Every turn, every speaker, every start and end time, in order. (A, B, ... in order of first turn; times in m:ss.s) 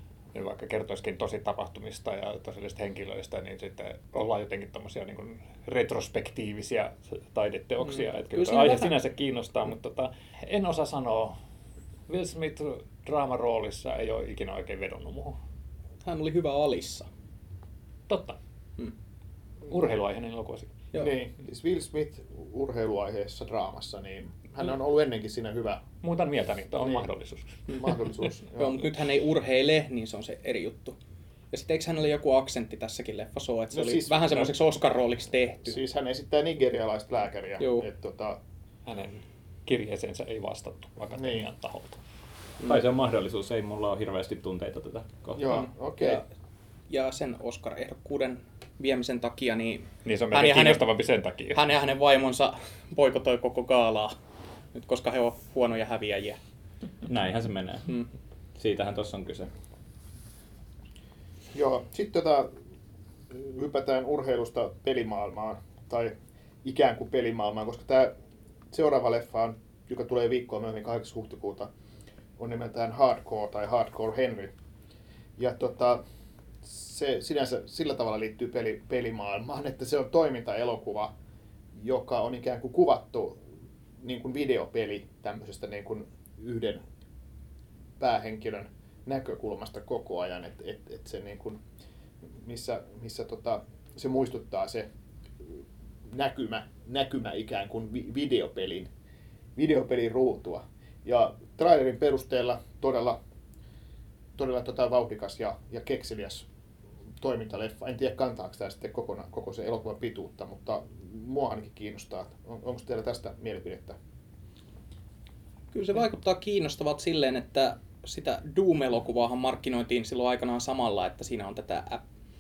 0:00.3-0:11.4 A
0:07.9-0:09.0 B
0:12.1-0:15.4 A
0:16.0-0:17.1 B
0:18.1-0:18.4 A
0:19.7-0:20.8 A
0:21.0-0:25.8 C
0:26.0-0:27.6 A
0:27.7-0:28.8 C
0:28.5-0:31.0 B
0:31.5-0:35.8 B
0:33.7-0:34.6 C
0:35.7-0:38.4 C
0:37.6-0:37.9 B
0:38.9-0:42.0 A
0:41.2-0:41.4 C
0:42.6-0:45.4 D
0:45.4-0:46.2 C
0:45.5-0:46.2 B
0:46.9-0:50.9 B
0:50.0-0:51.6 A
0:51.5-0:54.1 B
0:54.7-0:56.4 B
0:57.1-0:57.9 D
0:58.6-0:59.5 D
1:01.5-1:02.5 C
1:03.3-1:08.1 C
1:08.7-1:11.7 C
1:12.4-1:14.5 C
1:15.4-1:16.0 C
1:16.6-1:21.1 C
1:21.8-1:23.4 C
1:24.0-1:26.8 C
1:28.0-1:31.6 C
1:32.4-1:34.9 C
1:36.1-1:38.9 C
1:39.6-1:43.2 C
1:44.4-1:46.5 C
1:47.2-1:54.0 C
1:55.7-2:02.0 B